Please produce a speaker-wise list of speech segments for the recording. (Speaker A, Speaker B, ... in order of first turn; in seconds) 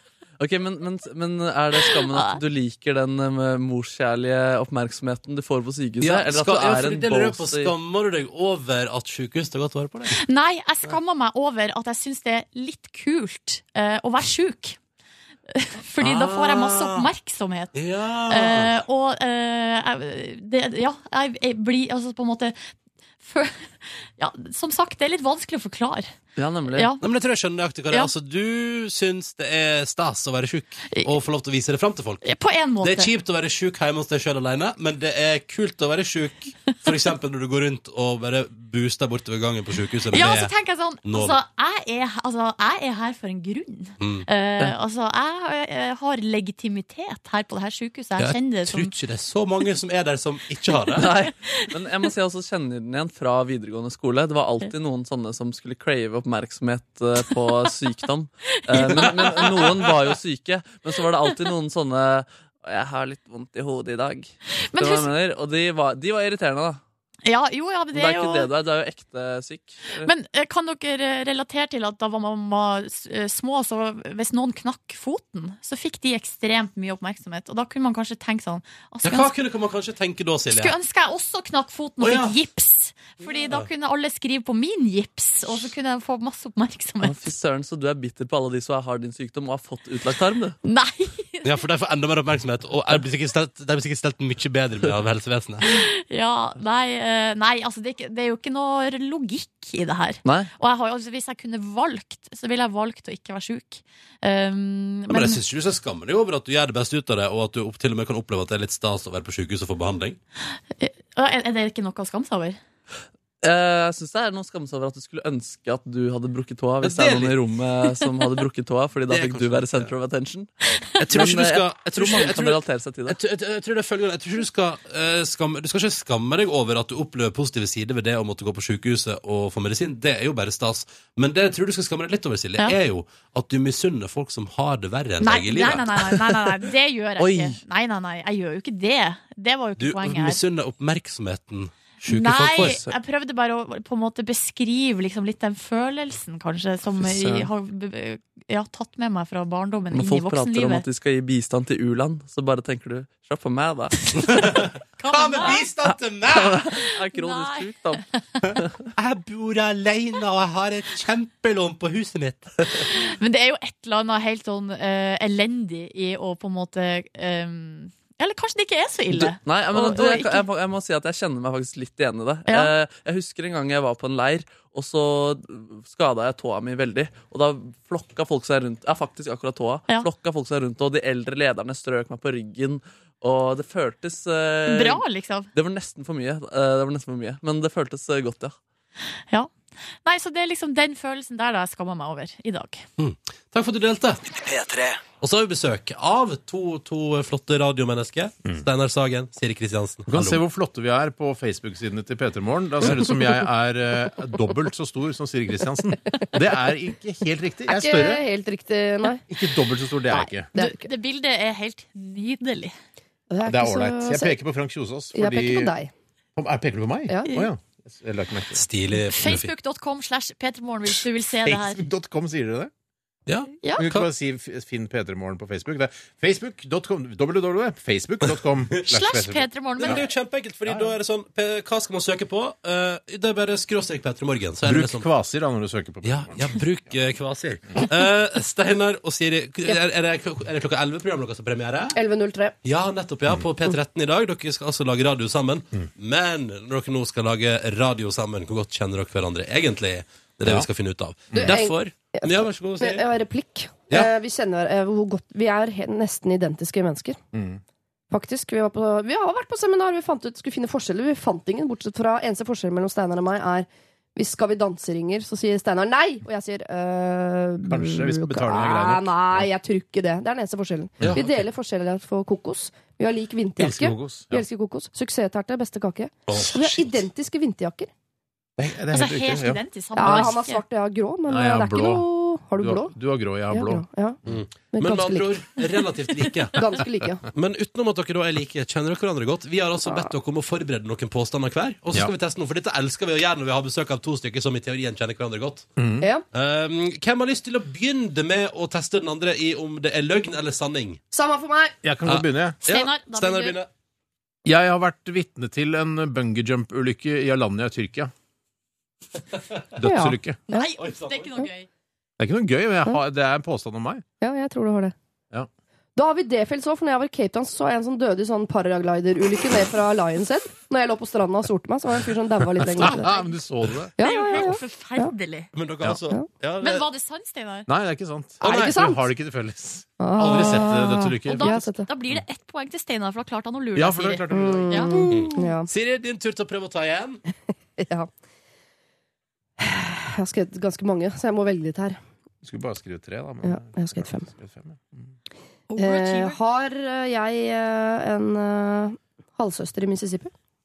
Speaker A: 0.4-7.7, 26.4-26.9, 51.0-66.8, 67.9-70.1, 87.0-90.6, 100.2-100.5, 113.4-120.5, 121.1-123.2, 142.7-142.9, 149.9-154.1, 156.5-158.1, 169.1-188.6
Speaker B: 1.8-2.4, 10.1-14.8, 15.5-17.8, 18.3-26.1, 26.7-27.0, 32.2-33.1, 40.1-48.9, 51.0-51.5, 58.7-59.9, 64.6-65.1, 67.2-68.5, 70.0-79.3, 80.5-87.2, 90.6-91.5, 95.6-105.4, 110.7-112.6, 135.2-140.4, 142.1-150.8, 154.2-155.7, 156.8-158.4, 162.8-170.4, 172.5-172.7, 184.7-185.5, 190.1-192.8, 210.6-212.7, 219.0-221.8, 223.6-223.9, 228.9-230.0, 278.9-280.6, 302.6-303.6, 310.5-311.7, 322.8-323.3, 324.0-325.5, 326.6-327.7, 331.3-335.4, 345.7-346.4
Speaker C: 6.0-10.2, 16.0-17.1, 17.7-18.8, 27.0-32.3, 32.8-40.5, 41.0-41.4, 44.0-44.3, 48.2-51.1, 79.0-80.7, 82.0-82.4, 91.4-95.7, 105.1-110.2, 116.8-117.4, 119.1-119.9, 121.0-136.2, 137.2-137.6, 139.8-142.8, 154.2-156.6, 159.0-162.9, 193.0-194.4, 195.2-200.4, 218.5-219.5, 223.3-224.1, 229.8-235.1, 236.0-242.0, 242.6-253.1, 271.0-271.4, 276.3-277.0, 284.3-286.7, 287.3-295.7, 296.3-301.0, 302.1-303.7, 310.8-311.3, 325.5-326.9, 335.1-337.2
Speaker D: 200.1-208.2, 209.3-210.5, 213.4-215.7, 216.4-218.6, 221.6-222.7, 223.8-230.0, 230.7-230.9, 234.7-236.6, 251.3-251.6, 257.3-257.6, 267.6-269.5, 273.6-274.4, 278.6-280.3, 281.3-283.9, 295.8-296.1, 301.8-302.6, 304.4-308.1, 309.8-310.4, 312.2-314.1, 322.7-323.9, 327.7-331.6, 333.8-335.2, 342.4-345.1
Speaker E: 207.7-209.6, 210.1-210.9, 213.3-214.4, 215.1-215.9, 217.1-217.4, 241.9-242.6, 251.3-257.2, 258.1-277.9, 280.0-283.0, 283.5-284.2, 284.7-285.5, 286.5-287.2, 289.9-290.1, 296.0-296.3, 301.1-301.8, 309.8-310.7, 314.2-314.9, 316.0-323.1, 324.0-325.1, 328.4-329.1, 330.0-331.9, 334.3-335.7, 337.8-338.1, 339.6-342.0, 343.4-344.3, 345.8-350.3